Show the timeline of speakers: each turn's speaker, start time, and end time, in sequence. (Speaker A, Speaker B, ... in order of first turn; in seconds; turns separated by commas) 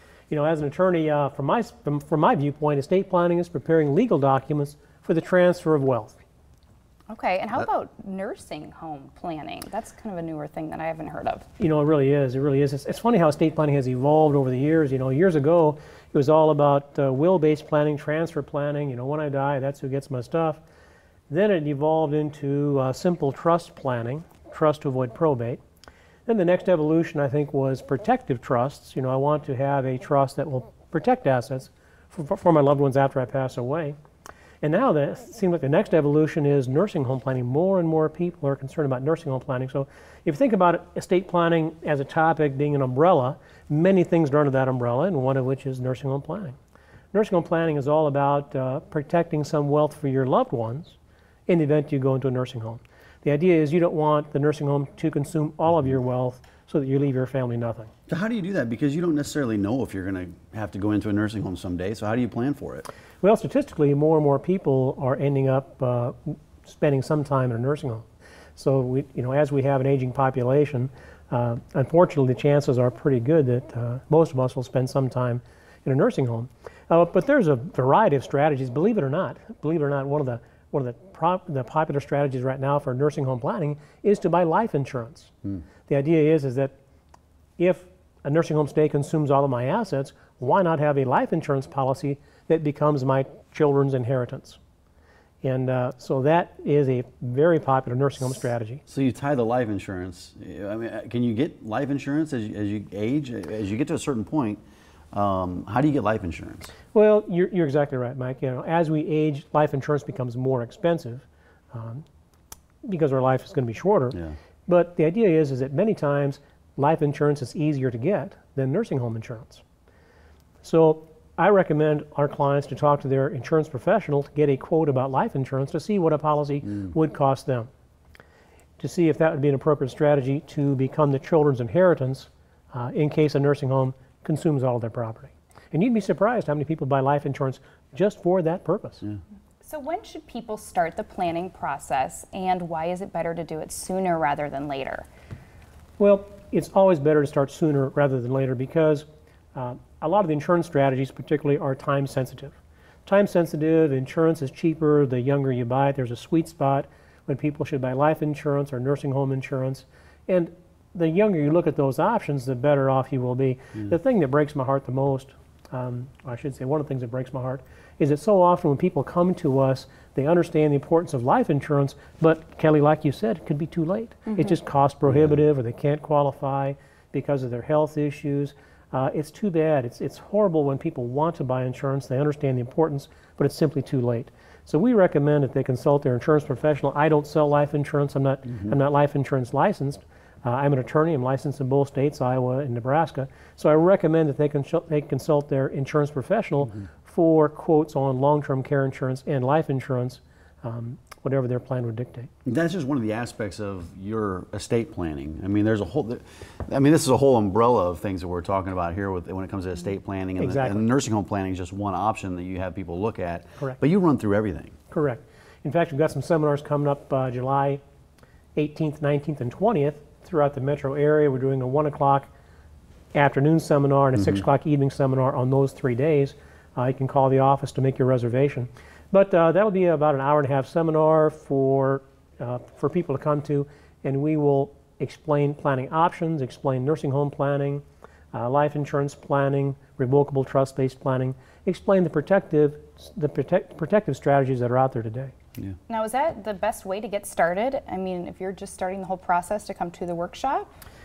Speaker A: 0.3-6.2, Speaker B: 7.1-11.4, Speaker A: 11.6-20.6, Speaker A: 21.3-25.6, Speaker A: 26.2-34.0, Speaker A: 34.6-46.5, Speaker A: 47.1-57.9, Speaker C: 58.1-62.9, Speaker A: 63.2-85.3, Speaker A: 85.9-86.7, Speaker A: 87.6-94.6, Speaker A: 95.4-98.8, Speaker C: 98.9-104.6, Speaker C: 105.1-106.7, Speaker A: 106.9-112.0, Speaker A: 112.8-119.6, Speaker A: 120.6-127.7, Speaker A: 128.8-139.0, Speaker B: 139.6-145.0, Speaker A: 146.0-202.3, Speaker C: 175.1-175.3, Speaker C: 202.4-214.7, Speaker A: 210.4-210.8, Speaker A: 214.9-217.8, Speaker A: 218.5-222.3, Speaker A: 223.1-245.3, Speaker B: 245.9-250.7